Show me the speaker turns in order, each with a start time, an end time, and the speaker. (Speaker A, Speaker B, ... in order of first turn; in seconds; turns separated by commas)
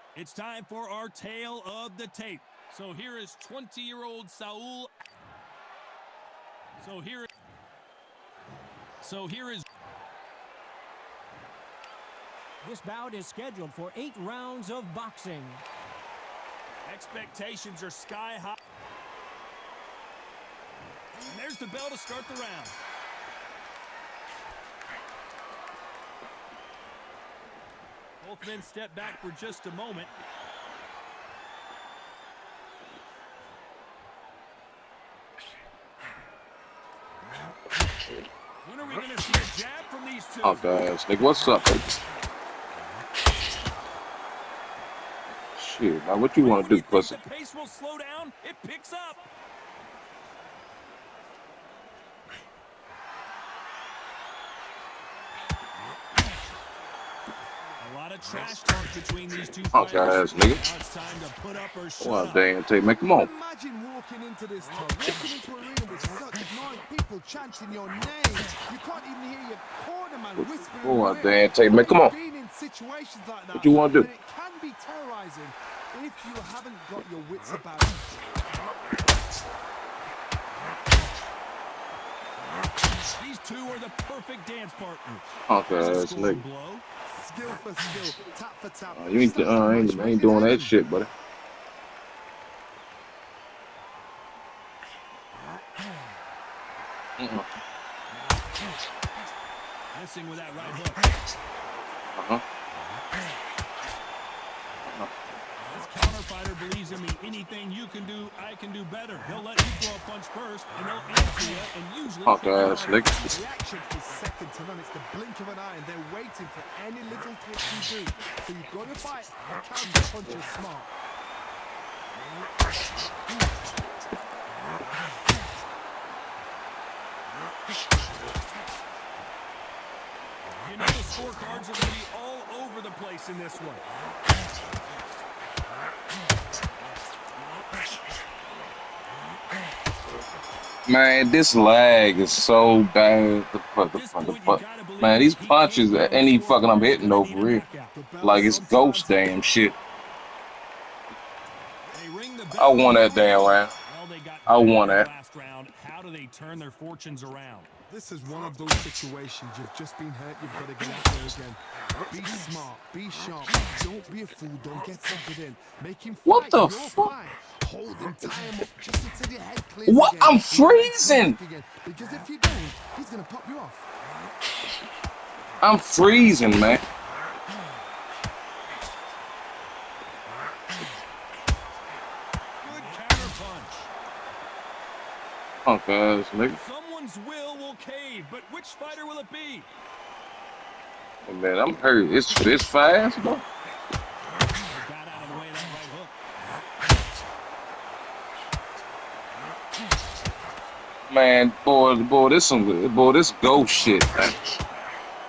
Speaker A: 0.1-4.9, Speaker A: 6.8-7.3, Speaker A: 9.0-9.6, Speaker B: 12.6-15.6, Speaker A: 16.9-18.6, Speaker A: 21.2-22.7, Speaker A: 28.2-30.1, Speaker A: 38.6-40.7, Speaker C: 40.4-41.9, Speaker C: 45.5-47.2, Speaker A: 46.4-49.3, Speaker A: 57.8-62.4, Speaker C: 59.7-60.6, Speaker C: 62.0-63.3, Speaker D: 62.9-78.2, Speaker C: 70.4-72.1, Speaker C: 73.5-74.1, Speaker A: 83.2-86.8, Speaker C: 85.5-86.4, Speaker D: 87.1-90.8, Speaker C: 88.9-91.1, Speaker C: 97.2-97.5, Speaker A: 99.9-101.0, Speaker C: 102.2-102.4, Speaker A: 105.6-113.0, Speaker C: 112.3-113.3, Speaker D: 112.6-120.9, Speaker A: 130.6-133.8, Speaker C: 140.8-147.7, Speaker A: 143.9-148.0, Speaker D: 147.9-148.9, Speaker C: 148.2-149.8, Speaker A: 148.7-149.3, Speaker A: 151.9-157.7, Speaker C: 152.6-153.7, Speaker C: 154.5-155.1, Speaker D: 157.9-173.9, Speaker C: 166.2-167.1, Speaker C: 169.8-171.4, Speaker C: 175.6-176.8, Speaker A: 182.6-183.9, Speaker C: 185.6-186.6, Speaker A: 186.5-189.7, Speaker C: 191.2-193.4, Speaker A: 194.7-196.1, Speaker C: 201.1-204.4